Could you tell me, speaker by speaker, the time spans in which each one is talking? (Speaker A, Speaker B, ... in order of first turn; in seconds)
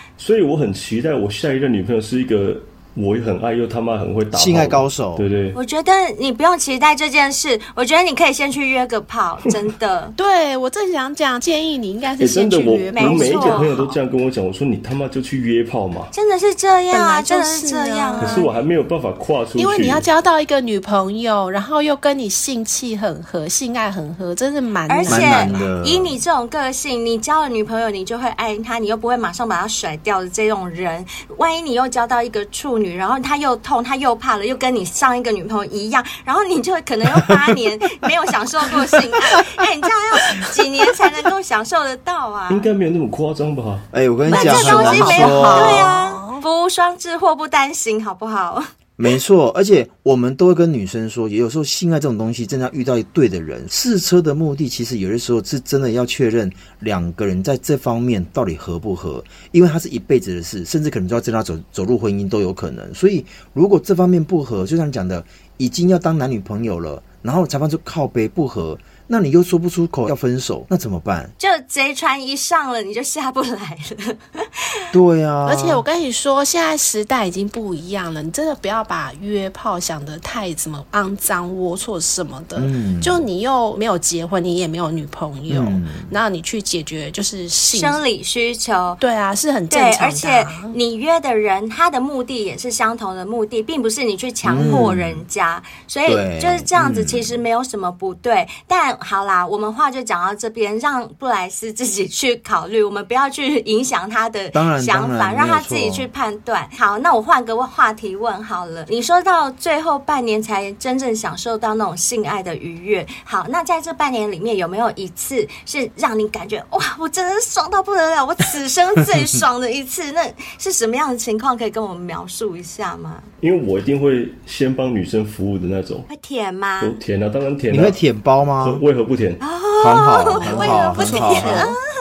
Speaker A: 0.2-5.6, 12.2-16.1, 18.2-20.1, 42.5-43.9, 123.4-126.1, 126.8-128.0, 128.6-129.4
Speaker B: 4.3-5.3, 25.1-26.2, 43.9-45.9, 49.0-71.3, 74.9-75.8, 82.6-83.2, 85.5-86.1, 94.4-95.2, 96.0-97.4, 104.5-106.1, 127.7-128.8, 129.8-131.7
Speaker C: 5.5-10.2, 12.9-13.8, 16.1-18.5, 24.9-42.7, 44.3-48.7, 71.4-74.9, 87.7-89.0, 89.7-123.3, 126.1-127.0, 129.4-131.8
Speaker D: 10.2-14.0, 16.9-18.5, 19.6-25.6, 44.3-46.4, 75.5-88.0, 89.0-90.8, 94.6-94.9, 130.3-131.8